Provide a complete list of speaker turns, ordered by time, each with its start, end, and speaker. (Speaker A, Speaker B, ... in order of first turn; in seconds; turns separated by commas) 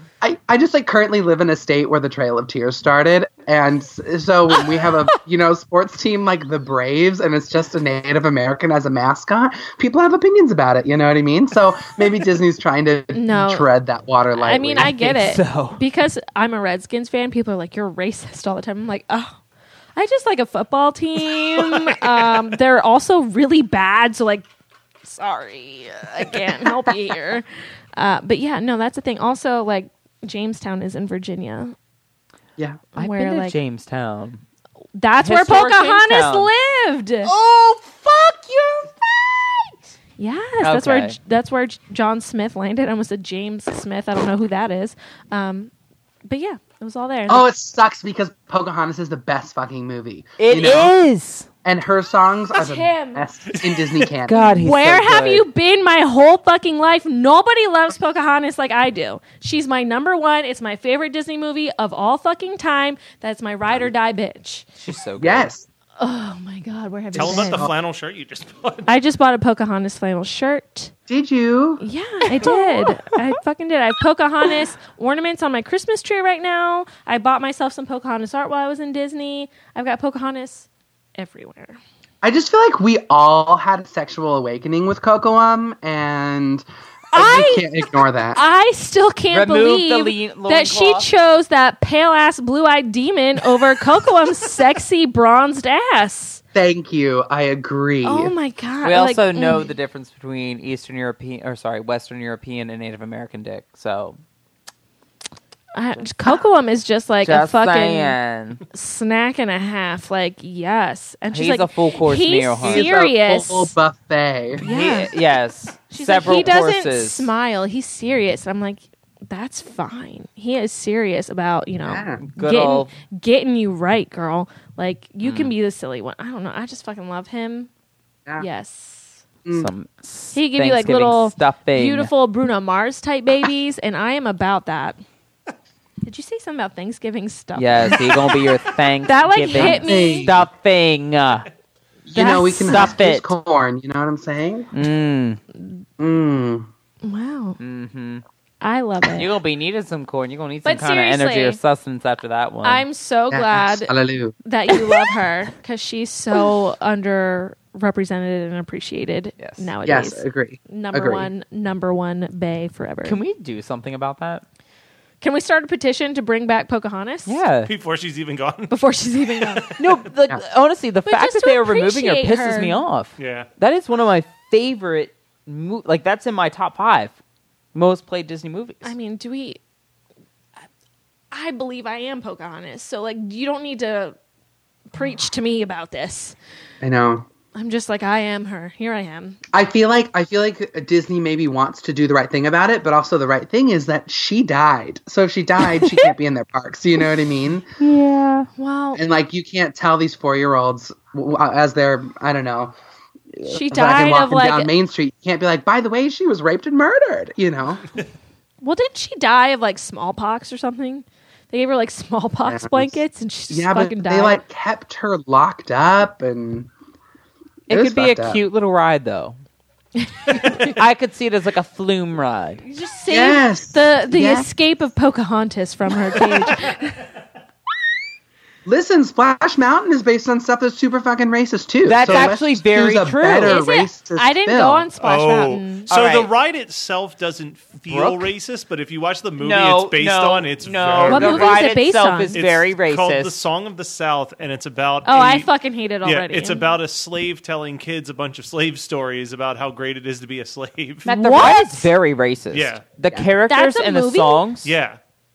Speaker A: 0.2-14.9, Speaker B: 13.1-13.7, Speaker B: 14.3-19.4, Speaker C: 14.8-15.8, Speaker B: 19.9-24.4, Speaker B: 25.0-31.7, Speaker A: 32.6-32.8, Speaker C: 33.0-34.4, Speaker B: 33.0-33.5, Speaker B: 34.9-37.3, Speaker C: 35.2-36.5, Speaker C: 37.2-39.8, Speaker B: 40.2-45.7, Speaker C: 40.6-41.2, Speaker B: 46.2-47.5, Speaker A: 47.3-50.9, Speaker C: 50.4-51.5, Speaker A: 51.6-54.5, Speaker B: 52.5-53.2, Speaker D: 53.7-54.0, Speaker C: 54.2-55.4, Speaker B: 54.3-64.7, Speaker C: 64.8-65.5, Speaker A: 65.2-65.7, Speaker B: 66.0-67.7, Speaker D: 67.1-68.9, Speaker A: 67.2-67.7, Speaker B: 68.9-70.9, Speaker A: 71.1-71.8, Speaker B: 71.8-81.8, Speaker C: 72.3-72.9, Speaker A: 82.2-88.4, Speaker B: 87.1-87.7, Speaker B: 88.3-96.4, Speaker C: 89.3-91.1, Speaker A: 96.5-98.3, Speaker B: 98.0-99.7, Speaker C: 98.8-104.2, Speaker B: 105.8-108.2, Speaker C: 107.2-108.6, Speaker B: 108.7-113.8, Speaker C: 111.3-112.9, Speaker A: 112.6-114.6, Speaker B: 114.6-115.1, Speaker C: 114.6-117.3, Speaker B: 115.9-127.7, Speaker A: 121.8-122.2, Speaker C: 122.2-122.9, Speaker C: 125.2-125.5, Speaker B: 128.4-129.2, Speaker C: 129.5-132.1, Speaker B: 130.3-135.0, Speaker B: 136.0-140.3, Speaker C: 137.5-141.5, Speaker A: 139.6-140.5, Speaker A: 142.1-144.7, Speaker C: 142.1-143.3, Speaker B: 142.2-143.0, Speaker C: 144.7-145.4, Speaker A: 146.0-146.7, Speaker B: 147.0-147.6, Speaker C: 147.6-148.2, Speaker B: 148.6-149.3, Speaker C: 149.1-152.8, Speaker B: 150.6-151.6, Speaker B: 152.6-163.2, Speaker A: 153.3-154.4, Speaker C: 159.4-159.7, Speaker A: 159.8-161.3, Speaker C: 163.0-164.4, Speaker B: 165.2-167.4, Speaker C: 167.2-167.7, Speaker D: 167.6-170.0, Speaker B: 168.7-169.7, Speaker C: 169.8-177.2, Speaker B: 171.1-172.8, Speaker D: 173.2-173.5, Speaker C: 177.7-178.9, Speaker B: 178.8-179.6, Speaker B: 181.3-184.2, Speaker B: 184.9-186.4, Speaker A: 186.8-187.2, Speaker B: 187.5-189.4, Speaker A: 189.5-197.7, Speaker C: 197.8-198.5, Speaker B: 198.6-199.0, Speaker A: 198.9-202.7, Speaker A: 203.3-207.9, Speaker B: 203.5-204.7, Speaker B: 208.6-214.4, Speaker A: 212.4-216.7, Speaker A: 217.7-218.4, Speaker C: 217.7-219.4, Speaker B: 220.0-220.8, Speaker C: 220.6-222.6, Speaker B: 222.6-227.1, Speaker A: 223.1-224.5, Speaker A: 228.6-234.9, Speaker C: 231.8-233.6, Speaker D: 232.0-232.3, Speaker B: 233.4-235.9, Speaker D: 235.0-241.6, Speaker C: 235.9-236.3, Speaker C: 237.9-238.3, Speaker C: 239.4-243.3, Speaker B: 241.0-242.4, Speaker D: 242.3-245.5, Speaker B: 245.0-246.7, Speaker D: 246.0-251.1, Speaker C: 251.0-254.7, Speaker B: 251.1-251.9, Speaker D: 252.5-252.8, Speaker B: 253.5-254.4, Speaker D: 254.6-255.0